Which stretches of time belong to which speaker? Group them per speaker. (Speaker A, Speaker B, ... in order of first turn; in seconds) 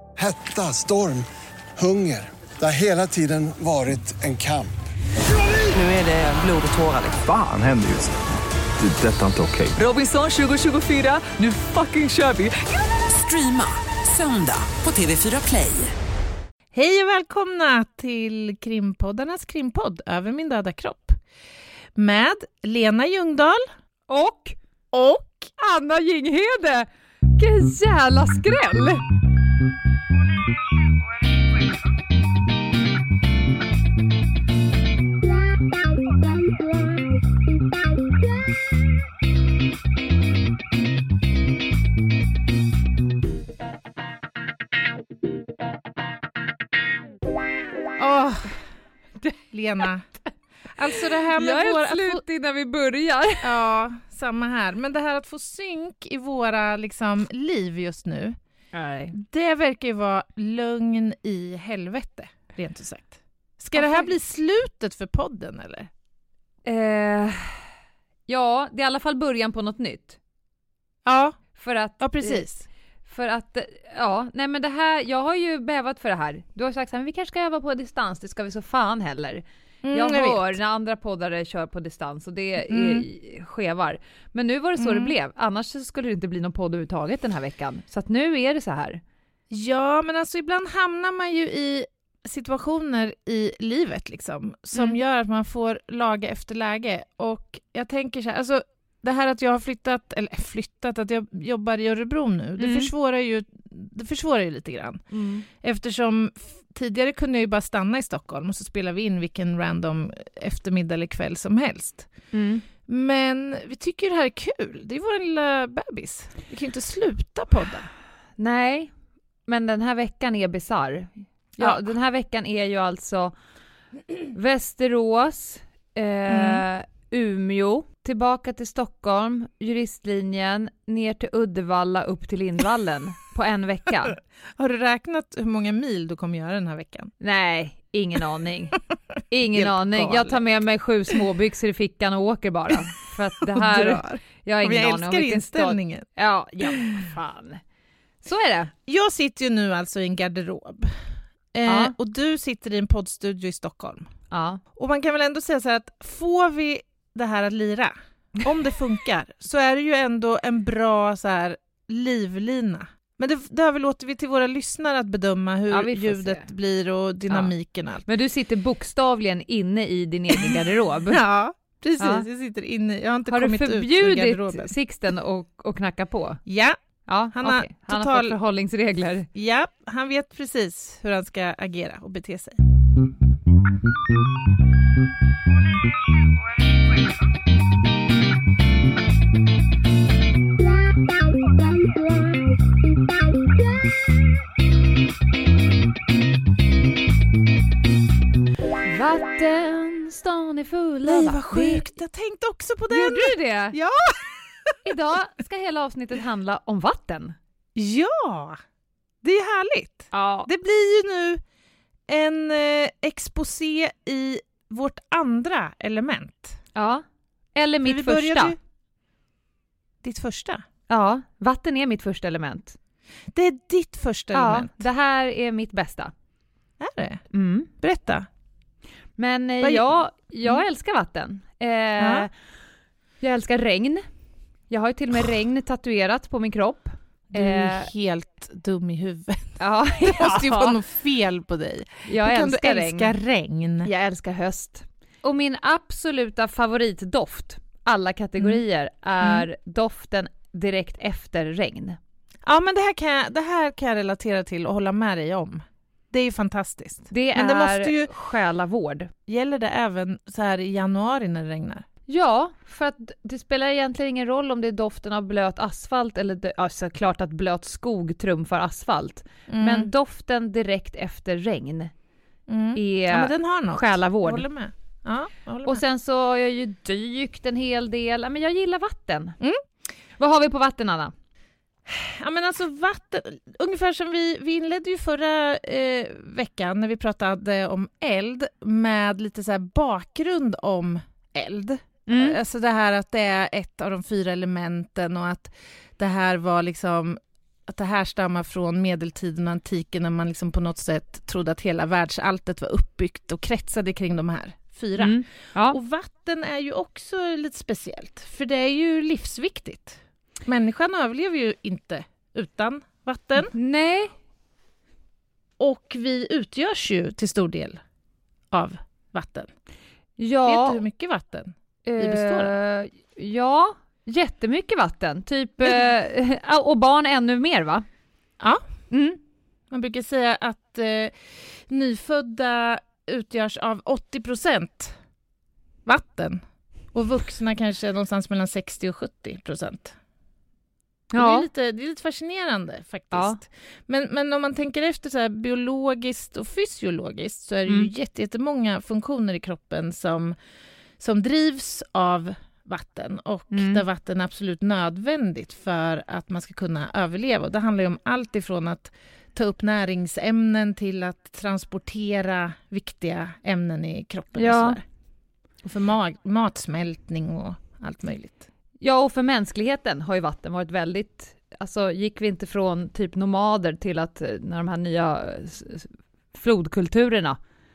Speaker A: 0.2-1.2, 1.8-4.7
Speaker B: 5.5-7.2, 9.8-15.9
Speaker C: 7.2-8.1, 8.8-9.8
Speaker D: 16.7-21.2, 21.9-23.6, 24.9-25.5, 48.0-48.6, 49.2-50.1, 50.8-52.2, 53.4-58.4, 59.1-65.9, 71.0-71.4, 72.0-72.6, 79.8-80.6, 82.7-83.0, 84.8-85.1, 89.5-112.1, 112.9-117.9, 121.6-121.9, 126.3-126.6, 134.6-137.1, 139.5-140.4, 143.4-146.1, 146.7-146.9, 148.8-151.0, 151.5-154.1, 154.8-168.0, 170.3-174.7, 176.4-176.8, 177.3-178.3, 179.3-182.6, 201.0-204.7, 207.7-208.6, 209.2-211.4, 212.1-216.6, 217.8-218.6, 220.0-220.6, 223.3-224.8, 226.8-227.2, 227.8-228.2, 229.6-229.9, 232.0-232.3, 237.3-243.9, 252.4-258.1, 259.3-261.8, 269.5-269.9, 272.5-275.8, 281.9-313.5, 315.6-317.8, 318.5-319.5, 320.4-322.5, 329.7-335.0, 335.9-336.4, 336.9-339.9, 341.1-350.4, 351.0-364.8, 365.6-368.4
Speaker E: 24.1-24.6, 25.6-29.0, 51.3-53.5, 58.7-59.1, 63.7-64.1, 66.6-67.6, 68.3-70.2, 71.5-72.4, 73.1-89.0, 102.6-102.9, 105.1-105.4, 112.3-112.6, 118.4-118.9, 119.5-123.3, 124.3-134.2, 137.2-138.8, 139.3-147.6, 148.2-148.7, 151.7-151.9, 154.3-154.6, 165.7-166.5, 168.1-171.2, 172.0-172.2, 173.3-176.4, 177.1-179.3, 198.8-201.9, 202.9-203.8, 204.8-207.4, 210.1-210.5, 216.7-217.0, 217.5-218.5, 220.9-222.8, 224.3-226.1, 227.3-227.7, 229.2-232.3, 233.2-234.0, 234.7-237.9, 239.6-240.8, 242.1-243.1, 243.8-252.0, 257.1-259.1, 262.1-271.9, 272.7-274.4, 275.6-279.4, 280.2-281.1, 292.1-292.4, 305.0-305.8, 313.5-314.1, 320.2-320.8, 321.9-327.9, 328.9-329.2, 341.1-341.5, 343.1-343.4, 353.5-353.8, 364.4-364.8, 368.8-377.4